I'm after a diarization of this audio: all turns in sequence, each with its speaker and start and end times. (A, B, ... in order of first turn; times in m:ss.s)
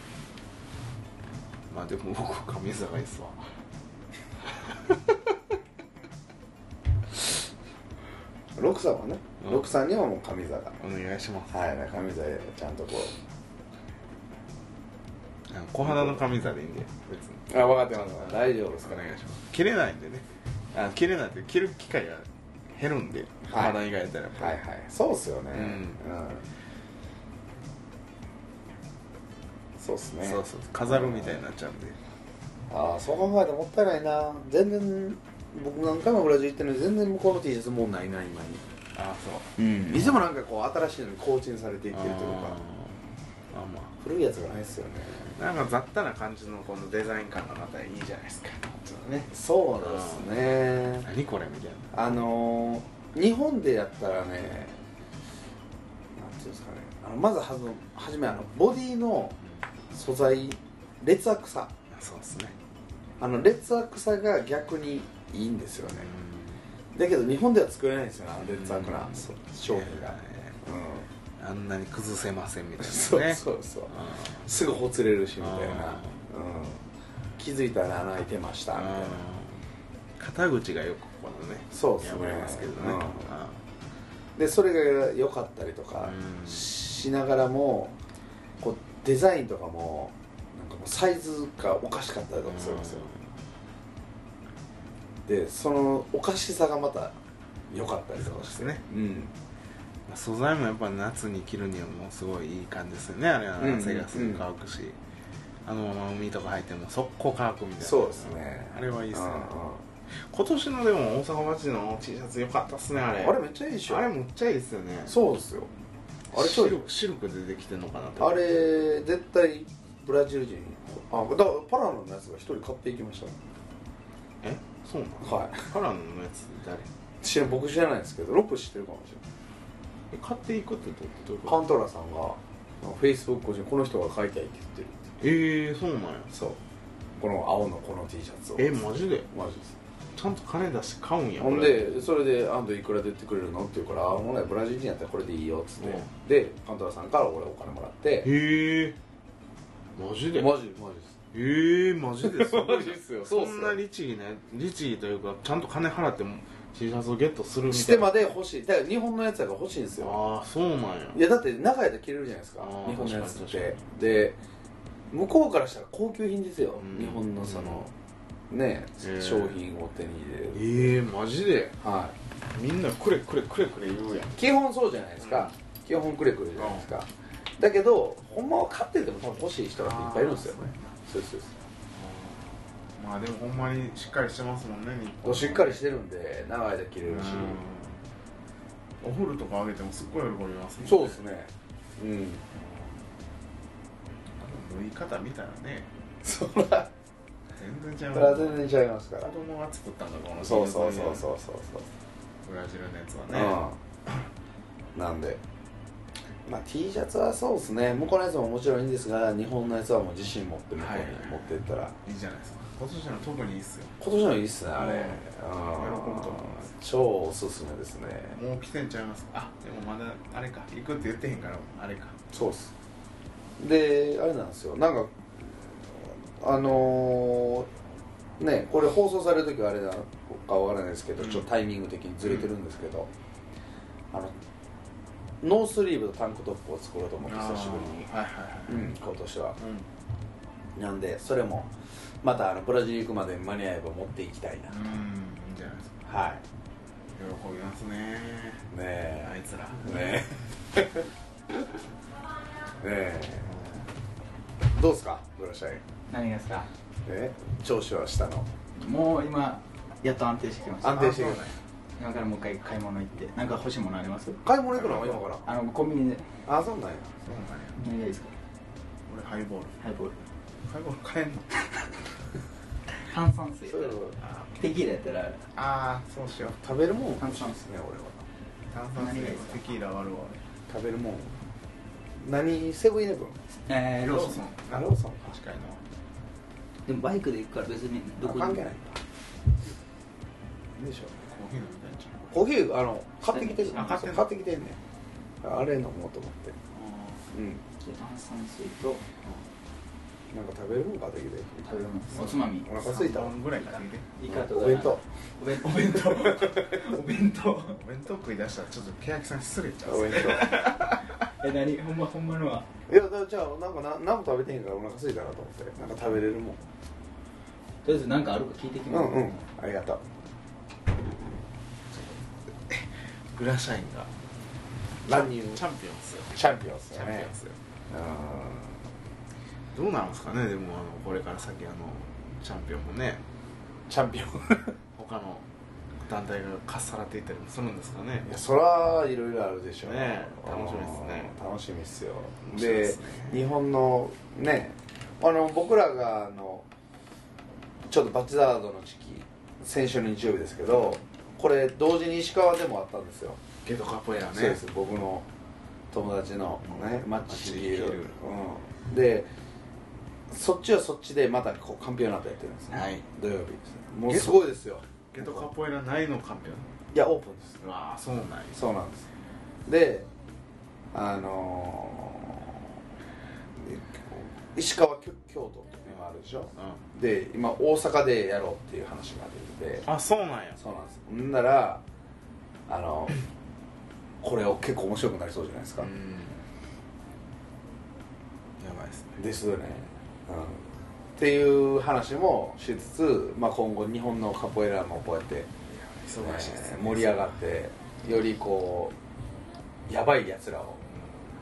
0:01.7-0:03.4 A
0:04.6-0:05.1 A
0:08.6-0:10.8 B
0:10.8-0:11.5 A
0:11.5-0:13.2 B
0:15.5-0:24.6 A
0:15.8-0:16.2 B
0:17.5-0:19.0 B
0:23.5-0:23.8 B
0:24.4-0:26.4 B
0:25.5-0:26.0 A
0:29.8-0:31.4 B
0:30.2-0:32.0 A
0:32.7-0:38.6 B
0:38.9-0:40.2 A
0:39.6-0:42.6 B
0:41.9-0:43.0 A
0:43.5-0:43.9 A
0:44.0-0:45.4 B
0:45.4-0:49.3 A
0:49.3-0:51.1 B
0:49.8-0:50.4 A
0:51.0-0:52.2 A
0:51.9-0:54.8 B
0:56.1-0:59.4 B
0:59.9-1:01.7 B
1:01.9-1:02.6 A
1:03.2-1:06.1 B
1:05.9-1:06.6 A
1:06.9-1:11.1 B
1:08.4-1:10.6 A
1:11.4-1:14.3 A
1:12.8-1:16.8 B
1:15.4-1:16.2 A
1:17.4-1:19.2 B
1:18.7-1:19.6 A
1:20.2-1:23.6 A
1:21.7-1:23.3 B
1:24.4-1:28.0 B
1:26.0-1:26.7 A
1:28.6-1:33.1 B
1:32.5-1:33.2 A
1:35.2-1:37.2 B
1:37.7-1:39.3 B
1:38.2-1:38.8 A
1:40.1-1:45.0 A
1:43.6-1:44.4 B
1:45.6-1:49.6 A
1:47.8-1:49.8 B
1:50.2-1:55.2 A
1:53.2-1:54.0 B
1:55.0-1:55.7 B
1:56.3-1:56.8 B
1:56.3-1:58.5 A
1:58.2-2:03.4 B
2:04.4-2:06.9 A
2:05.2-2:05.7 B
2:07.2-2:09.2 B
2:10.1-2:11.6 A
2:11.4-2:15.1 B
2:15.2-2:16.3 A
2:16.3-2:16.6 B
2:17.2-2:19.7 B
2:18.6-2:19.3 A
2:20.1-2:22.1 A
2:21.4-2:28.3 B
2:25.8-2:26.1 A
2:28.2-2:29.0 A
2:29.9-2:30.6 A
2:30.3-2:31.1 B
2:31.3-2:38.2 A
2:32.2-2:33.8 B
2:37.7-2:40.2 B
2:40.0-2:41.2 A
2:41.1-2:44.4 B
2:42.6-2:43.8 A
2:45.1-2:47.9 B
2:46.8-2:47.9 A
2:48.5-2:50.9 B
2:49.0-2:49.6 A
2:50.5-2:51.8 A
2:51.8-2:52.2 B
2:52.5-2:54.4 A
2:54.3-3:01.5 B
2:55.2-2:55.5 A
2:56.6-2:56.9 A
2:59.8-3:00.8 A
3:01.9-3:05.8 A
3:05.2-3:07.6 B
3:07.0-3:08.0 A
3:09.0-3:11.2 A
3:10.8-3:12.4 B
3:14.4-3:15.9 A
3:16.2-3:16.9 B
3:17.6-3:18.7 A
3:18.1-3:19.3 B
3:19.2-3:21.2 A
3:20.4-3:21.9 B
3:22.4-3:23.6 A
3:23.3-3:23.8 B
3:24.9-3:25.4 B
3:26.4-3:31.9 B
3:30.8-3:33.9 A
3:34.0-3:38.4 B
3:34.8-3:36.7 A
3:38.3-3:42.2 A
3:42.3-3:42.7 B
3:43.6-3:47.7 B
3:48.4-3:53.1 B
3:51.2-3:51.5 A
3:52.2-3:52.5 A
3:55.4-3:58.1 B
3:57.3-3:58.9 A
3:58.7-3:59.6 B
3:59.6-3:59.9 A
4:00.8-4:01.7 B
4:02.2-4:04.8 B
4:04.7-4:06.0 A
4:06.0-4:06.4 B
4:07.1-4:08.7 A
4:08.7-4:11.0 B
4:09.2-4:10.2 A
4:12.8-4:13.6 B
4:13.4-4:13.9 A
4:14.7-4:15.8 B
4:16.1-4:16.7 C
4:17.0-4:18.5 B
4:18.8-4:21.3 C
4:20.8-4:21.5 B
4:20.9-4:21.5 A
4:22.0-4:24.4 C
4:24.4-4:25.5 B
4:24.8-4:25.2 A
4:25.4-4:26.3 C
4:26.4-4:27.1 B
4:27.2-4:27.8 A
4:27.8-4:28.3 C
4:29.1-4:29.8 A
4:29.8-4:30.2 C
4:30.6-4:31.5 A
4:33.0-4:34.0 C
4:33.6-4:34.2 B
4:34.2-4:34.5 A
4:34.6-4:35.4 C
4:35.5-4:36.6 A
4:36.6-4:38.2 B
4:37.2-4:37.6 C
4:38.7-4:40.4 A
4:39.0-4:39.6 C
4:40.7-4:41.3 B
4:42.2-4:43.4 B
4:43.7-4:44.4 C
4:44.0-4:45.8 A
4:44.7-4:45.2 B
4:46.8-4:48.7 C
4:48.2-4:49.0 B
4:50.8-4:51.2 B
4:51.2-4:52.2 A
4:52.3-4:54.8 B
4:53.2-4:54.0 C
4:53.7-4:54.3 A
4:55.4-4:56.6 B
4:56.7-4:57.2 A
4:57.3-4:57.6 B
4:57.8-4:59.0 C
5:00.3-5:01.7 B
5:01.6-5:02.9 C
5:02.1-5:04.1 A
5:02.2-5:03.4 B
5:03.6-5:07.8 C
5:04.3-5:05.0 B
5:07.7-5:11.1 A
5:09.8-5:10.8 B
5:11.4-5:12.7 C
5:12.9-5:16.6 B
5:17.8-5:19.3 C
5:18.9-5:20.0 B
5:22.7-5:24.1 A
5:25.0-5:25.6 B
5:25.0-5:27.6 A
5:26.3-5:27.3 B
5:27.9-5:28.8 B
5:29.7-5:33.2 A
5:33.9-5:34.8 B
5:34.9-5:35.4 A
5:36.0-5:38.3 A
5:38.2-5:46.6 B
5:39.8-5:41.4 A
5:42.4-5:43.4 A
5:47.9-5:53.4 B
5:50.7-5:51.0 A
5:53.6-5:54.6 A
5:54.3-5:55.3 B
5:55.9-5:59.3 B
5:56.6-5:58.2 A
6:00.3-6:05.5 B
6:02.7-6:03.0 A
6:04.1-6:06.7 A
6:06.9-6:07.6 B
6:07.6-6:08.6 A
6:08.5-6:09.1 B
6:09.6-6:10.1 B
6:10.9-6:12.5 B
6:13.6-6:19.9 B
6:16.6-6:16.8 A
6:19.8-6:20.6 A
6:20.6-6:21.8 B
6:22.7-6:23.2 B
6:24.2-6:25.9 B
6:25.8-6:26.4 A
6:28.6-6:29.2 A
6:29.2-6:30.6 B
6:31.2-6:35.5 B
6:35.9-6:37.4 A
6:36.2-6:38.9 B
6:39.9-6:40.8 B
6:40.9-6:41.2 A